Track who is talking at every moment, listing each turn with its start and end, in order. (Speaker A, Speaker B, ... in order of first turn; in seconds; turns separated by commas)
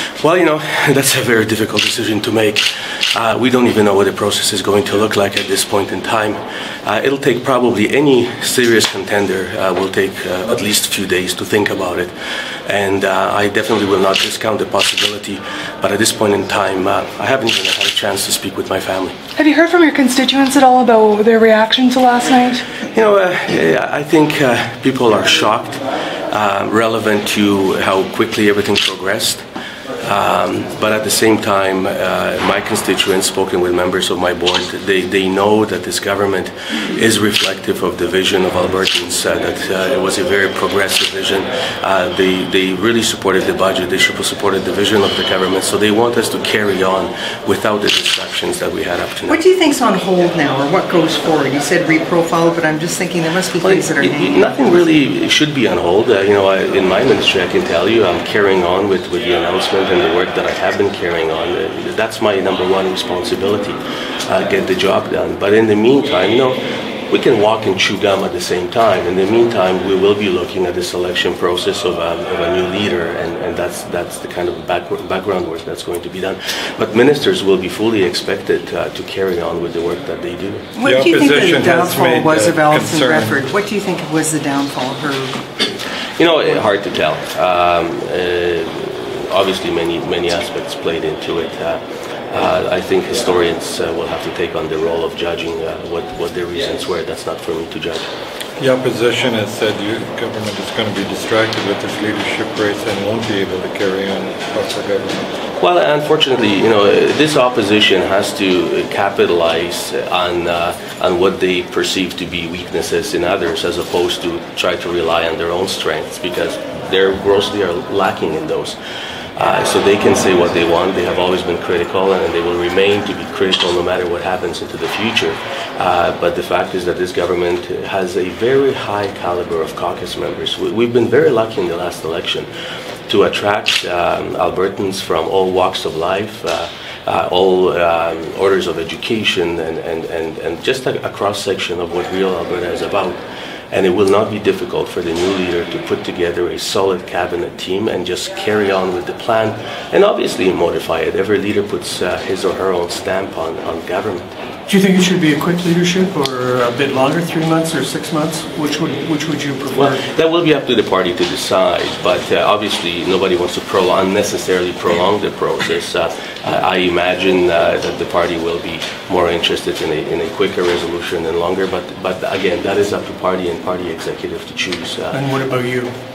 Speaker A: 0.2-12.1, Speaker A: 12.7-19.2, Speaker B: 19.4-22.6, Speaker A: 22.8-29.4, Speaker A: 30.0-49.4, Speaker C: 49.3-54.8, Speaker A: 53.6-80.7, Speaker C: 80.8-85.4, Speaker D: 80.8-83.5, Speaker A: 86.2-98.1, Speaker D: 98.6-105.3, Speaker A: 105.6-118.8, Speaker A: 119.3-132.5, Speaker A: 133.1-143.2, Speaker A: 143.7-154.2, Speaker E: 154.7-160.0, Speaker A: 159.7-175.2, Speaker E: 175.1-175.9